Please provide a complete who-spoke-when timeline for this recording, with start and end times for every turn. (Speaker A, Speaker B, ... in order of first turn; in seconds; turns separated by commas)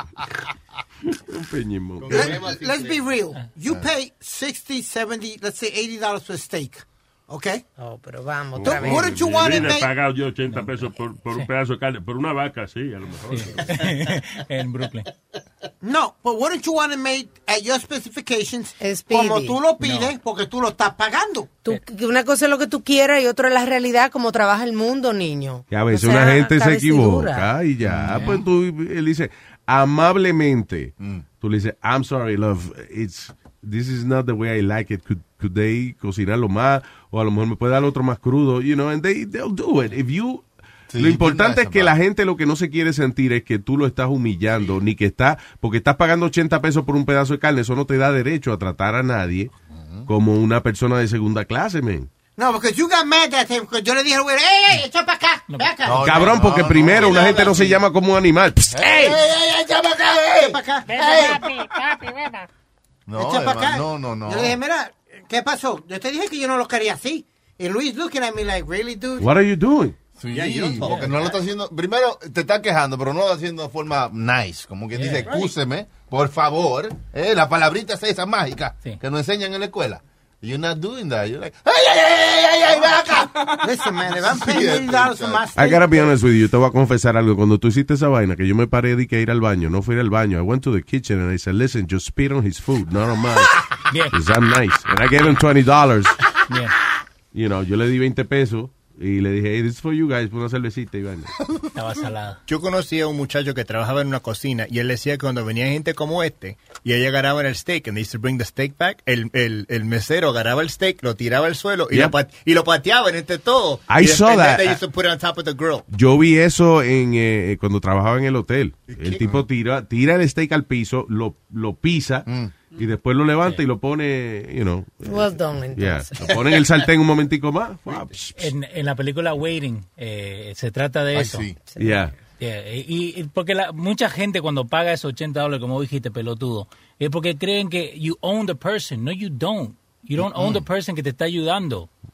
Speaker A: 1.3-2.5, Speaker B: 2.0-3.0, Speaker C: 2.1-7.6, Speaker D: 7.8-9.2, Speaker E: 8.6-13.8, Speaker C: 8.7-9.9, Speaker F: 10.5-10.8, Speaker F: 13.3-15.1, Speaker C: 15.8-21.5, Speaker D: 18.8-19.6, Speaker F: 19.8-20.1, Speaker D: 21.6-27.5, Speaker A: 25.7-40.5, Speaker B: 27.8-28.4, Speaker B: 40.9-42.0, Speaker A: 41.0-49.5, Speaker B: 49.7-50.1, Speaker A: 50.1-52.1, Speaker C: 52.4-56.1, Speaker F: 55.5-55.8, Speaker B: 55.9-57.8, Speaker A: 56.0-59.2, Speaker C: 57.0-57.5, Speaker B: 58.7-60.6, Speaker C: 59.0-59.4, Speaker C: 60.3-61.5, Speaker B: 63.1-64.6, Speaker C: 63.2-69.3, Speaker A: 69.2-70.0, Speaker B: 70.2-83.3, Speaker G: 70.3-70.9, Speaker C: 70.4-71.0, Speaker F: 70.9-71.2, Speaker F: 74.9-75.5, Speaker C: 83.4-86.1, Speaker B: 84.2-85.5, Speaker A: 85.5-93.5, Speaker F: 93.9-94.2, Speaker A: 94.1-96.2, Speaker F: 96.5-96.8, Speaker A: 97.3-101.3, Speaker F: 101.8-102.4, Speaker G: 102.5-115.8, Speaker A: 111.9-112.2, Speaker A: 113.9-114.8, Speaker A: 115.9-128.5, Speaker B: 119.0-119.4, Speaker B: 122.3-122.5, Speaker D: 125.0-126.6, Speaker F: 128.4-131.5, Speaker B: 131.1-131.6, Speaker A: 131.8-132.1, Speaker F: 132.4-141.9, Speaker B: 140.2-140.6